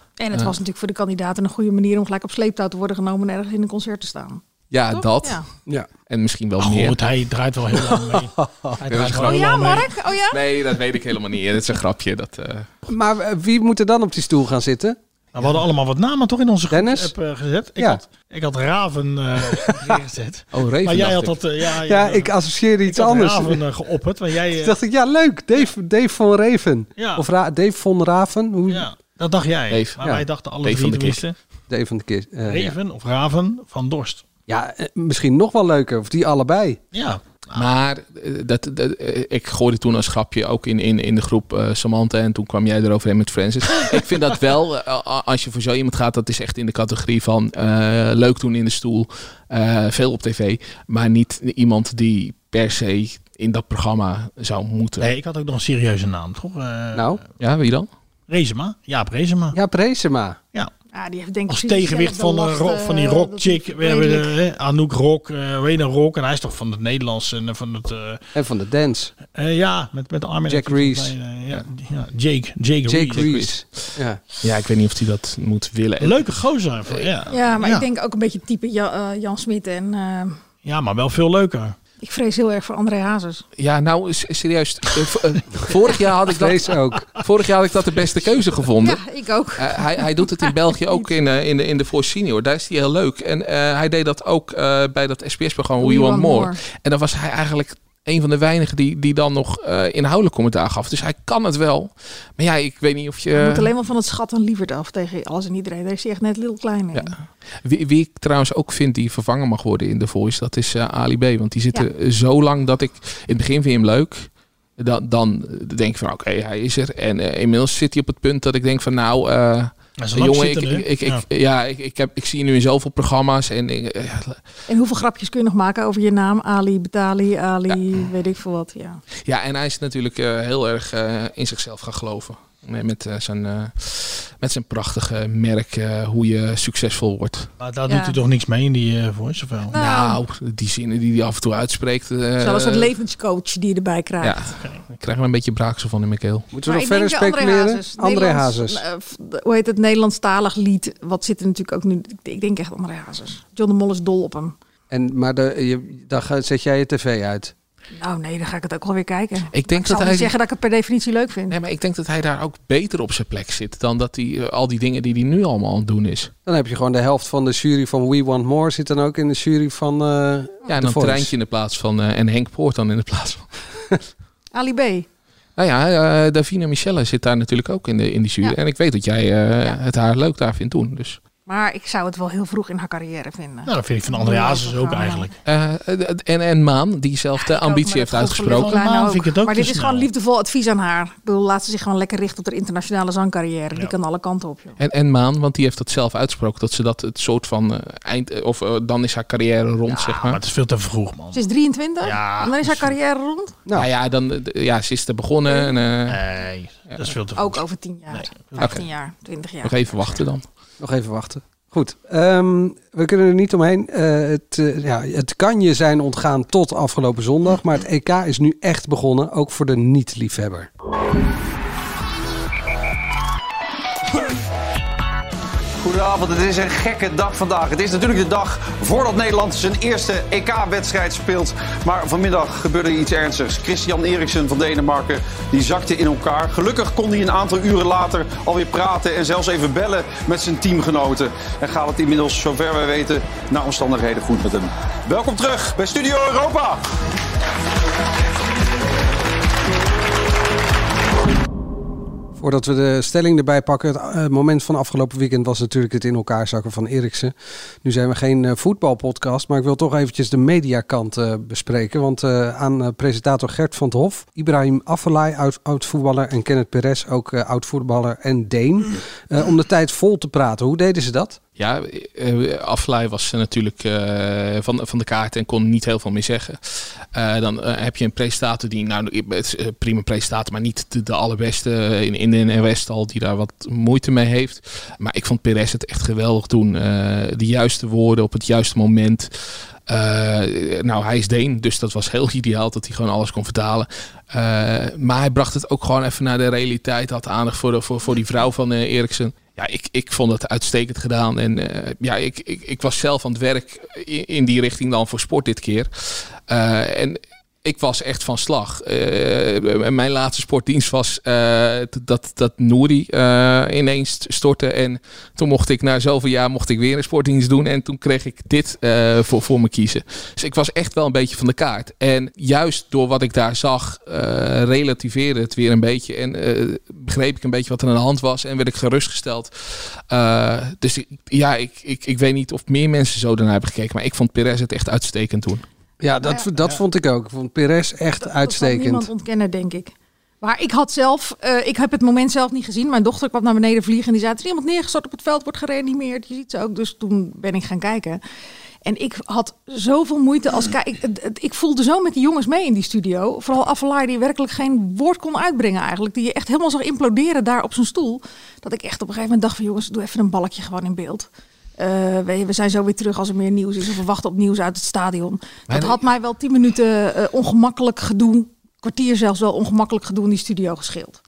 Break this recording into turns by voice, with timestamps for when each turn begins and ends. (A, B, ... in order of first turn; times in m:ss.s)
0:00.2-0:05.4 A
0:04.7-0:05.4 B
0:06.1-0:07.0 B
0:06.6-0:09.9 C
0:07.8-0:08.8 D
0:08.8-0:09.6 B
0:09.2-0:10.4 A
0:10.3-0:12.7 B
0:12.8-0:15.0 D
0:15.3-0:22.3 C
0:16.7-0:17.1 D
0:19.6-0:20.0 D
0:20.5-0:21.4 B
0:21.8-0:23.6 D
0:22.8-0:24.8 C
0:24.5-0:28.9 D
0:27.0-0:27.2 C
0:28.7-0:31.3 C
0:29.7-0:30.0 B
0:30.0-0:30.2 D
0:30.6-0:31.2 B
0:31.7-0:32.8 D
0:32.5-0:34.2 C
0:34.5-0:36.8 D
0:36.9-0:37.7 C
0:37.5-0:55.1 B
0:55.0-0:57.2 C
0:56.9-0:57.2 D
0:57.4-0:57.9 B
0:58.3-0:59.6 C
0:59.5-1:00.4 D
1:00.9-1:04.3 A
1:01.5-1:08.2 C
1:08.3-1:09.1 D
1:09.3-1:13.3 C
1:10.4-1:11.2 D
1:12.8-1:14.2 D
1:13.1-1:13.5 B
1:14.4-1:16.3 B
1:16.0-1:17.8 C
1:17.3-1:20.4 A
1:20.6-1:21.8 C
1:22.0-1:23.4 A
1:23.6-1:29.0 B
1:26.3-1:27.1 D
1:28.8-1:31.1 A
1:29.6-1:43.7 B
1:35.8-1:36.6 A
1:43.3-1:47.1 A
1:46.9-2:04.4 B
2:00.0-2:01.2 C
2:04.7-2:09.0 A
2:09.2-2:17.5 B
2:17.6-2:19.8 C
2:17.9-2:18.2 A
2:19.7-2:20.2 A
2:19.8-2:22.9 B
2:22.4-2:24.4 A
2:24.2-2:26.5 B
2:24.6-2:24.9 C
2:26.5-2:28.8 D
2:26.6-2:34.5 A
2:34.9-2:37.5 D
2:37.9-2:41.6 A
2:39.5-2:40.3 B
2:41.5-2:46.3 B
2:46.4-2:51.3 D
2:50.7-2:53.5 B
2:54.5-2:55.1 A
2:55.6-3:01.2 B
3:01.4-3:05.3 A
3:03.6-3:05.3 C
3:05.4-3:08.7 B
3:07.4-3:14.8 A
3:08.5-3:10.1 C
3:14.8-3:20.4 B
3:19.9-3:21.4 C
3:21.3-3:23.5 A
3:22.0-3:22.9 C
3:23.7-3:26.2 B
3:26.1-3:28.8 C
3:27.3-3:30.2 A
3:29.6-3:30.4 B
3:30.8-3:40.7 D
3:45.8-4:06.8 E
4:12.4-4:31.4 D
4:31.6-4:49.3 B
4:49.9-5:35.6 B
5:36.0-5:39.1 D
5:38.2-5:48.2 A
5:48.8-6:11.2 A
6:05.7-6:06.0 B